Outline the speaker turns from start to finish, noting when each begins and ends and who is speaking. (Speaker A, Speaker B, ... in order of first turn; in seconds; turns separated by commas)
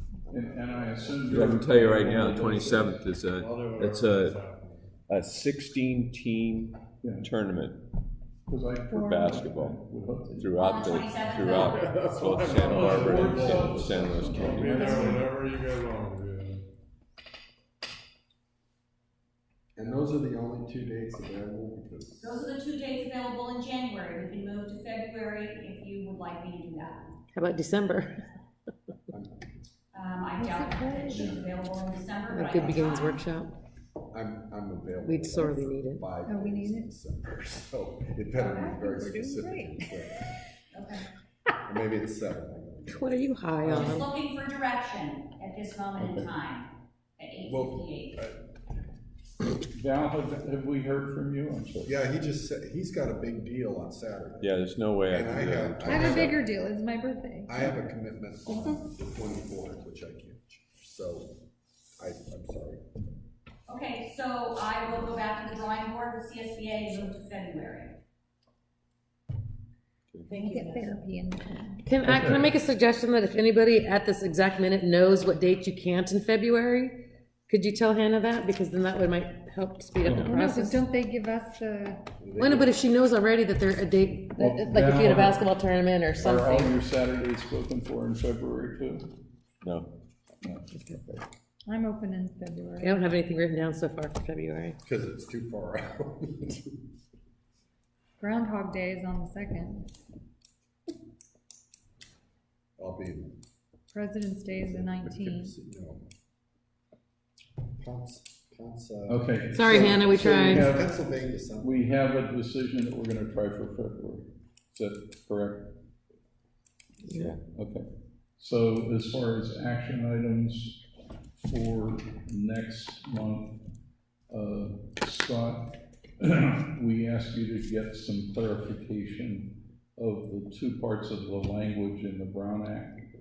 Speaker A: 0.2-1.8, Speaker B: 0.3-3.0, Speaker C: 1.3-4.4, Speaker D: 3.3-4.9, Speaker C: 5.1-7.8, Speaker B: 7.0-7.3, Speaker B: 8.5-10.5, Speaker C: 8.9-9.8, Speaker E: 8.9-9.3, Speaker C: 10.4-14.7, Speaker F: 10.6-12.1, Speaker D: 11.6-13.8, Speaker B: 12.6-15.3, Speaker D: 14.4-16.6, Speaker A: 19.8-22.4, Speaker F: 22.2-27.1, Speaker G: 27.3-28.1, Speaker A: 29.1-29.4, Speaker F: 29.9-33.2, Speaker E: 30.4-31.3, Speaker A: 31.1-31.4, Speaker G: 32.3-33.5, Speaker A: 32.6-33.1, Speaker A: 34.1-40.3, Speaker G: 35.0-36.1, Speaker E: 36.3-36.9, Speaker F: 38.4-38.8, Speaker E: 38.6-39.9, Speaker F: 40.7-41.1, Speaker A: 41.6-43.3, Speaker G: 42.9-44.1, Speaker F: 43.6-48.2, Speaker B: 46.0-46.3, Speaker A: 47.5-48.4, Speaker B: 49.7-51.9, Speaker A: 51.9-56.4, Speaker C: 54.4-56.5, Speaker E: 55.9-57.7, Speaker A: 57.5-61.4, Speaker E: 58.5-58.8, Speaker A: 62.0-62.8, Speaker F: 63.7-68.0, Speaker G: 70.3-70.9, Speaker E: 70.3-71.9, Speaker G: 71.8-80.8, Speaker B: 72.0-72.5, Speaker B: 80.0-80.3, Speaker E: 80.3-82.0, Speaker A: 82.2-82.8, Speaker G: 82.4-86.8, Speaker B: 84.4-85.5, Speaker B: 86.2-89.1, Speaker C: 89.6-89.9, Speaker B: 90.4-91.2, Speaker G: 90.7-91.0, Speaker E: 91.7-93.0, Speaker G: 92.8-94.8, Speaker A: 94.8-96.7, Speaker E: 98.2-99.9, Speaker A: 102.8-103.4, Speaker E: 103.9-105.6, Speaker A: 104.5-106.0, Speaker A: 107.8-111.8, Speaker B: 109.1-111.0, Speaker G: 109.5-110.7, Speaker B: 111.6-115.7, Speaker G: 117.0-117.4, Speaker B: 117.5-120.8, Speaker B: 121.4-123.6, Speaker B: 124.3-133.0